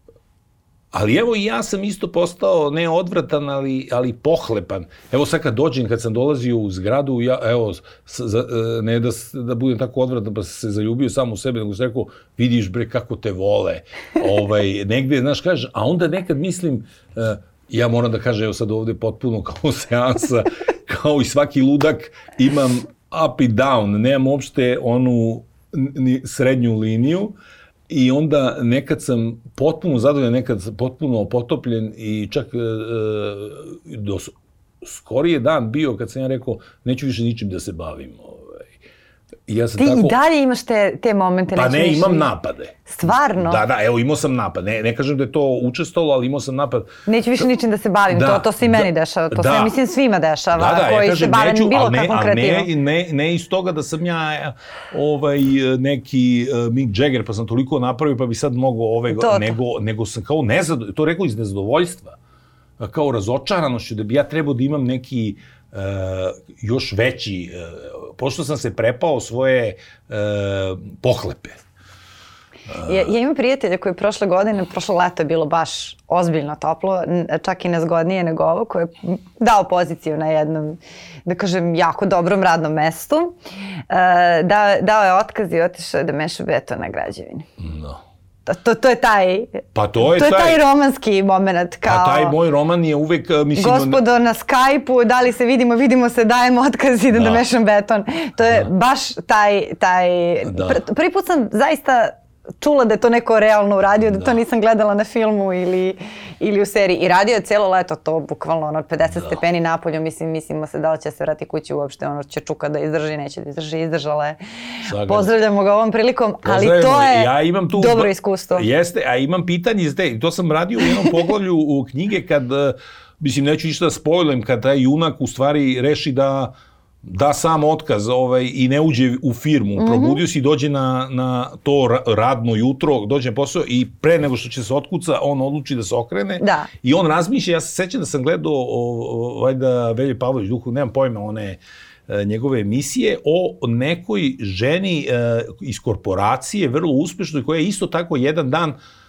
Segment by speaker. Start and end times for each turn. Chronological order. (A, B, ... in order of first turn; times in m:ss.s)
0:00.9-0:27.3 A
0:27.9-0:38.7 A
0:39.5-0:40.2 A
0:39.8-0:42.3 B
0:41.5-0:46.9 A
0:42.9-0:43.6 B
0:47.1-0:52.7 B
0:48.1-0:49.8 A
0:50.6-1:02.2 A
0:59.1-0:59.6 B
1:02.8-1:11.6 A
1:12.7-1:13.1 A
1:12.8-1:23.4 B
1:23.9-1:27.5 B
1:27.6-1:28.0 A
1:28.5-1:32.4 B
1:29.7-1:30.6 A
1:31.8-1:34.0 A
1:33.6-1:54.4 B
1:37.1-1:37.4 A
1:40.5-1:40.8 A
1:54.8-1:55.3 A
1:55.0-1:58.7 B
1:56.4-2:28.8 A
2:09.8-2:10.2 B
2:16.4-2:16.7 B